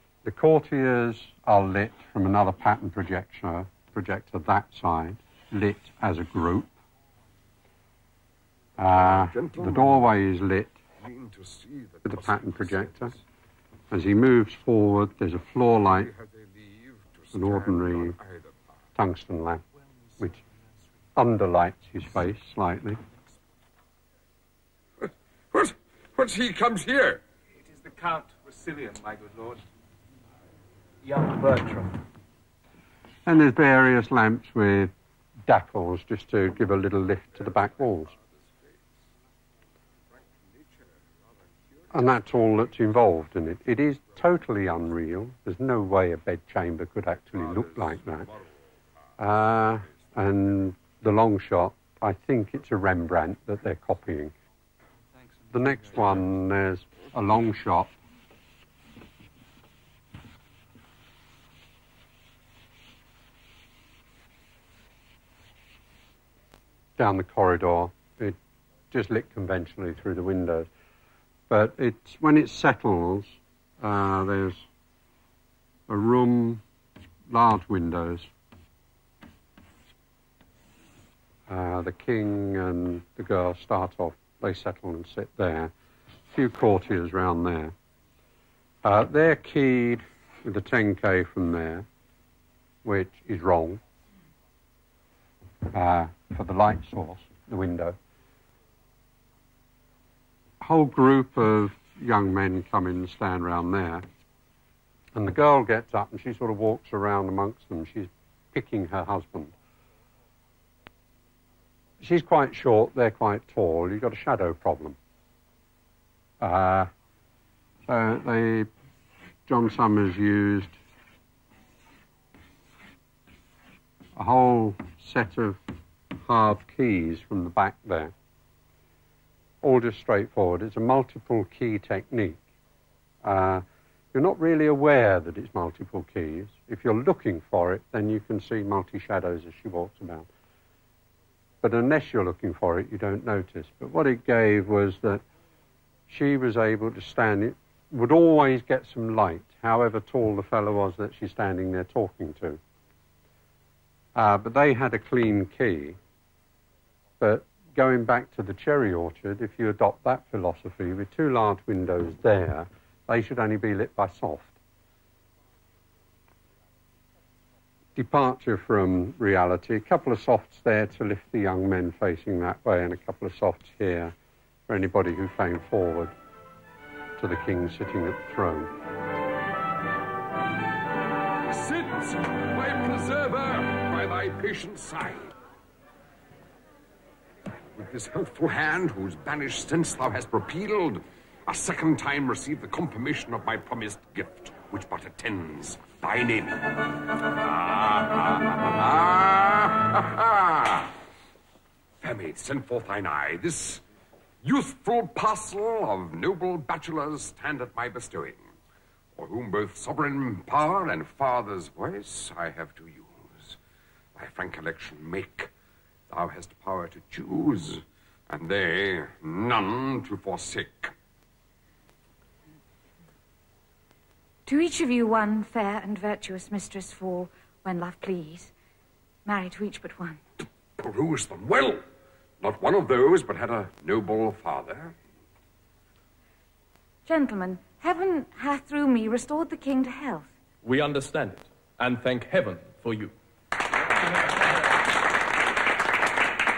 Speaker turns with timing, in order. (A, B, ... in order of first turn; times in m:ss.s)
0:00.2-0:06.7 A
0:08.8-0:10.8 A
0:08.9-0:10.1 B
0:11.0-0:13.2 B
0:12.0-0:13.2 A
0:13.9-0:16.1 A
0:16.0-0:18.8 B
0:17.3-0:18.2 A
0:19.0-0:19.6 A
0:21.2-0:23.0 A
0:25.0-0:27.2 B
0:27.5-0:29.6 C
0:31.0-0:31.9 C
0:33.3-0:34.9 A
0:35.5-0:38.2 A
0:41.9-0:48.3 A
0:49.2-0:54.3 A
0:55.5-0:57.9 A
1:07.0-1:08.4 A
1:08.9-1:10.7 A
1:11.5-1:14.6 A
1:15.9-1:16.6 A
1:17.3-1:18.3 A
1:21.5-1:25.7 A
1:26.3-1:27.7 A
1:28.8-1:31.9 A
1:32.8-1:33.8 A
1:35.7-1:38.0 A
1:40.6-1:44.0 A
1:45.2-1:49.5 A
1:52.0-1:55.0 A
1:56.4-1:56.9 A
1:57.9-1:58.7 A
1:59.5-2:00.8 A
2:04.2-2:05.6 A
2:06.2-2:08.1 A
2:09.6-2:12.4 A
2:13.2-2:20.3 A
2:21.6-2:25.2 A
2:26.1-2:32.6 A
2:34.2-2:36.0 A
2:37.2-2:44.6 A
2:48.0-2:54.2 A
2:54.7-2:56.1 A
2:57.2-2:58.7 A
3:01.5-3:05.3 B
3:07.8-3:16.7 B
3:17.2-3:20.9 B
3:22.0-3:23.8 B
3:24.4-3:28.5 B
3:29.2-3:33.6 B
3:34.2-3:35.5 B
3:36.1-3:40.9 B
3:44.5-3:48.5 D
3:49.2-3:50.2 D
3:50.8-3:51.8 B
3:52.4-3:55.0 B
3:57.1-4:00.3 D
4:00.6-4:03.1 E